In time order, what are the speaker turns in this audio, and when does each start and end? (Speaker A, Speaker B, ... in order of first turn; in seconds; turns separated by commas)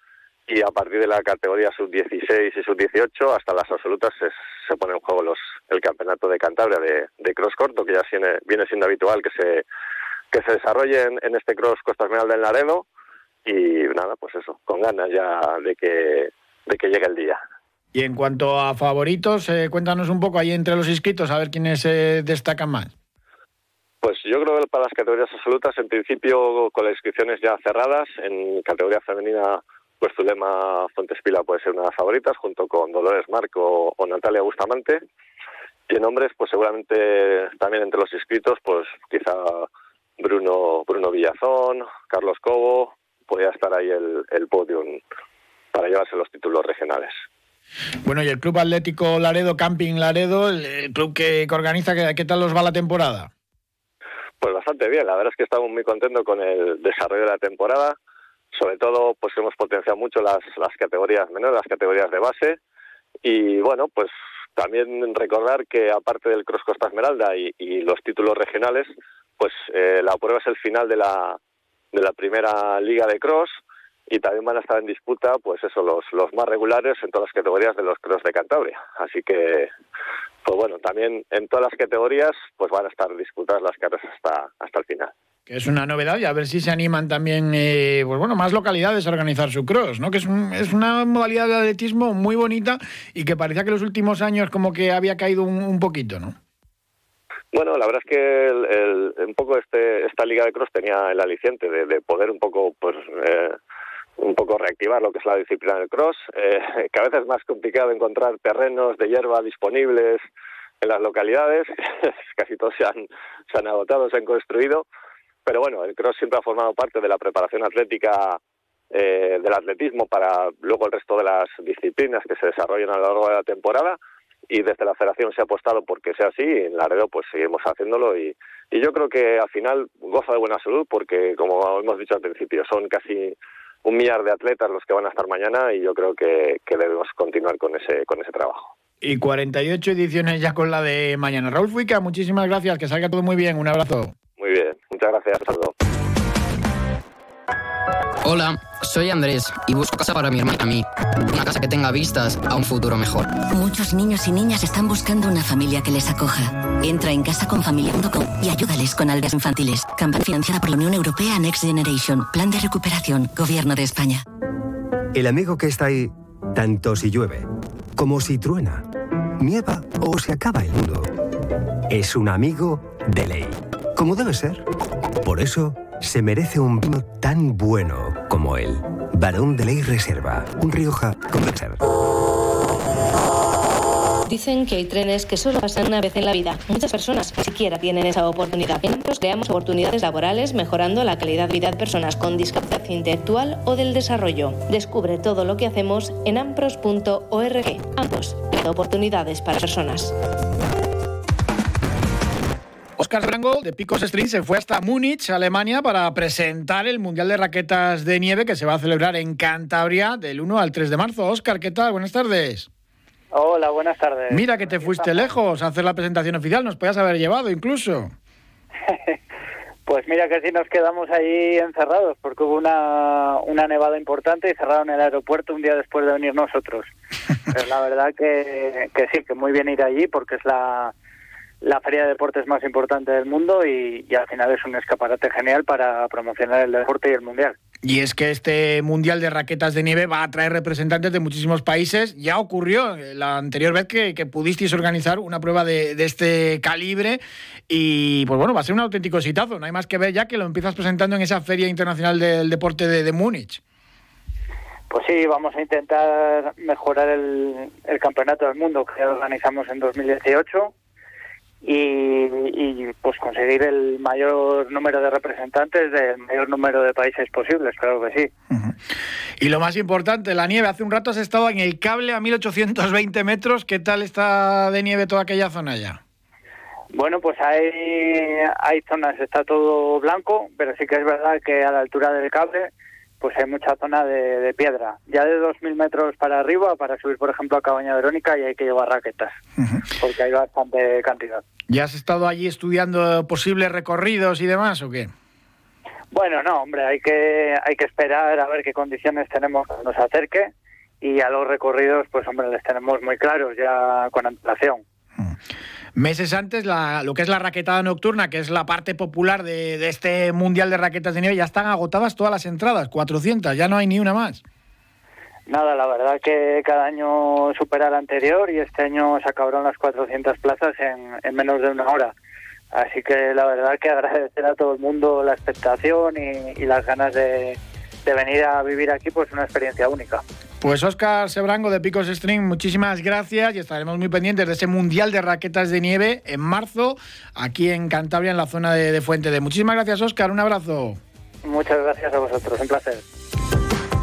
Speaker A: 0.5-9.7, Speaker A: 10.3-12.9, Speaker A: 13.4-17.4, Speaker B: 17.9-22.9, Speaker A: 24.0-35.0, Speaker A: 35.9-39.7, Speaker A: 40.2-45.0, Speaker A: 45.7-47.2, Speaker B: 48.0-53.3, Speaker A: 54.4-58.0, Speaker A: 58.5-62.6, Speaker A: 63.2-71.4, Speaker A: 71.9-73.6, Speaker A: 74.1-79.7, Speaker A: 80.4-85.1, Speaker B: 85.5-96.4, Speaker A: 97.5-103.6, Speaker A: 104.2-110.2, Speaker A: 110.8-114.9, Speaker A: 115.5-118.4, Speaker A: 118.9-138.7, Speaker B: 139.0-144.1, Speaker A: 144.4-145.7, Speaker C: 148.2-153.3, Speaker D: 153.5-164.2, Speaker E: 165.1-168.9, Speaker E: 169.4-171.1, Speaker E: 171.9-174.7, Speaker E: 175.2-181.8, Speaker F: 184.3-200.2, Speaker B: 203.0-212.7, Speaker G: 213.3-215.3, Speaker B: 214.3-218.1, Speaker G: 219.9-226.9, Speaker G: 227.5-230.9, Speaker G: 231.6-237.6, Speaker B: 237.8-253.6, Speaker G: 254.9-260.7, Speaker G: 261.6-268.3, Speaker B: 269.4-276.0, Speaker G: 276.9-289.4, Speaker G: 290.0-291.4, Speaker B: 291.7-295.1, Speaker G: 296.1-304.8, Speaker B: 306.0-314.4, Speaker G: 315.5-322.1, Speaker G: 322.7-330.2, Speaker B: 330.6-341.0, Speaker G: 341.4-343.0